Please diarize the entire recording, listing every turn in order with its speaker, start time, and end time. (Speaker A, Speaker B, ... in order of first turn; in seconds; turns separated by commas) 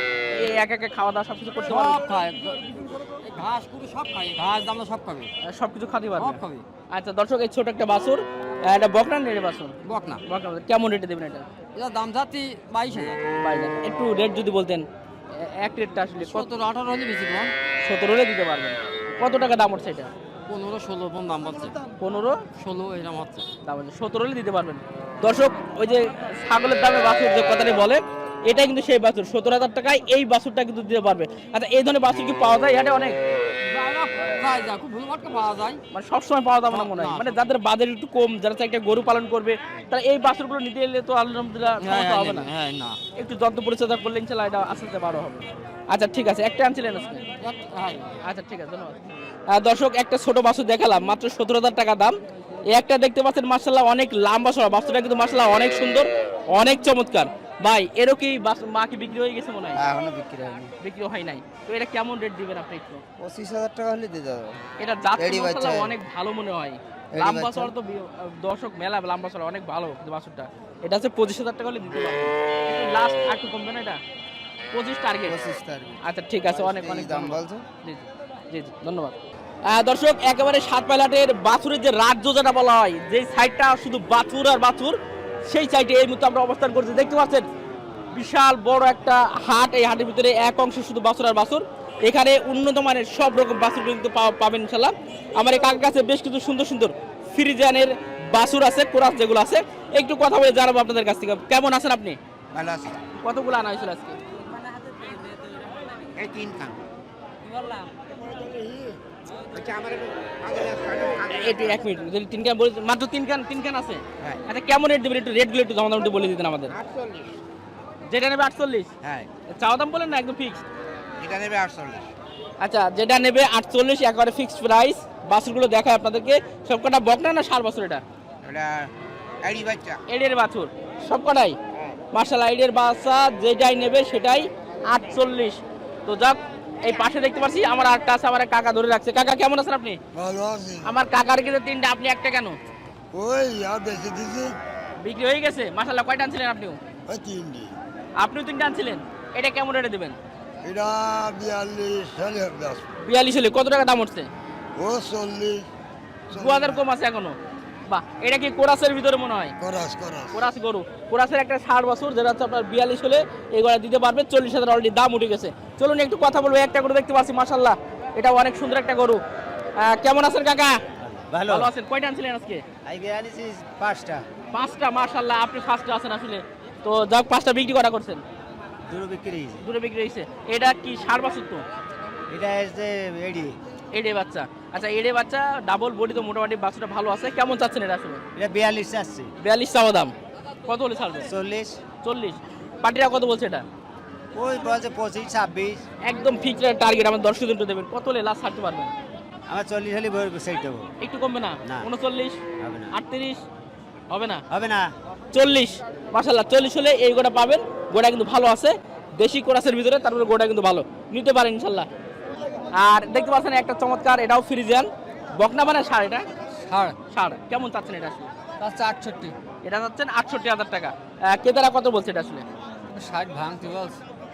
Speaker A: 0.3-2.1, Speaker B: 1.7-5.3, Speaker A: 5.4-11.4, Speaker B: 6.2-6.6, Speaker B: 9.8-10.2, Speaker B: 11.7-13.2, Speaker A: 13.4-16.5, Speaker B: 16.1-17.5, Speaker A: 17.8-20.1, Speaker B: 20.5-21.8, Speaker A: 22.0-22.4, Speaker B: 22.6-23.5, Speaker A: 23.6-33.2, Speaker B: 33.6-35.8, Speaker A: 35.9-42.5, Speaker B: 36.7-37.4, Speaker B: 41.8-43.0, Speaker A: 43.1-47.2, Speaker B: 47.4-48.2, Speaker A: 48.2-49.0, Speaker A: 49.5-52.2, Speaker A: 52.7-59.8, Speaker C: 59.8-60.7, Speaker A: 60.8-63.0, Speaker C: 63.2-64.6, Speaker A: 64.8-74.0, Speaker C: 65.2-65.9, Speaker C: 67.1-67.7, Speaker A: 74.7-75.4, Speaker C: 75.2-77.6, Speaker A: 76.0-79.1, Speaker A: 79.7-85.0, Speaker A: 85.5-87.4, Speaker A: 88.1-102.2, Speaker C: 102.5-102.9, Speaker A: 103.2-104.2, Speaker B: 104.5-106.1, Speaker C: 106.2-106.7, Speaker B: 107.5-107.9, Speaker C: 108.1-108.9, Speaker C: 109.7-111.5, Speaker A: 111.3-116.7, Speaker C: 116.8-117.3, Speaker A: 118.1-118.9, Speaker A: 119.5-120.6, Speaker C: 121.2-122.0, Speaker A: 122.6-128.0, Speaker C: 129.4-129.9, Speaker A: 130.1-131.6, Speaker A: 132.1-140.0, Speaker C: 140.1-140.9, Speaker A: 140.8-142.6, Speaker C: 143.1-144.6, Speaker A: 145.0-146.8, Speaker C: 147.1-147.7, Speaker A: 148.2-150.2, Speaker C: 150.6-152.8, Speaker A: 153.1-154.3, Speaker C: 154.8-155.7, Speaker C: 156.3-156.8, Speaker A: 156.3-159.5, Speaker C: 159.6-160.4, Speaker A: 160.3-169.2, Speaker A: 169.8-170.8, Speaker D: 171.1-171.7, Speaker A: 171.4-172.6, Speaker D: 172.8-174.2, Speaker A: 174.5-178.2, Speaker D: 178.9-179.6, Speaker A: 179.6-181.6, Speaker D: 182.3-183.6, Speaker A: 183.9-188.2, Speaker D: 188.3-189.3, Speaker A: 189.4-190.1, Speaker A: 190.7-191.3, Speaker D: 191.3-191.8, Speaker A: 192.0-193.6, Speaker D: 194.3-195.8, Speaker A: 196.0-198.9, Speaker D: 199.5-200.9, Speaker A: 201.0-202.4, Speaker D: 202.6-202.9, Speaker A: 202.9-203.4, Speaker A: 204.1-204.4, Speaker D: 204.5-204.9, Speaker A: 205.3-211.9, Speaker A: 212.8-216.2, Speaker B: 216.6-217.0, Speaker A: 217.1-218.3, Speaker B: 218.6-219.3, Speaker A: 219.6-222.4, Speaker B: 222.9-224.0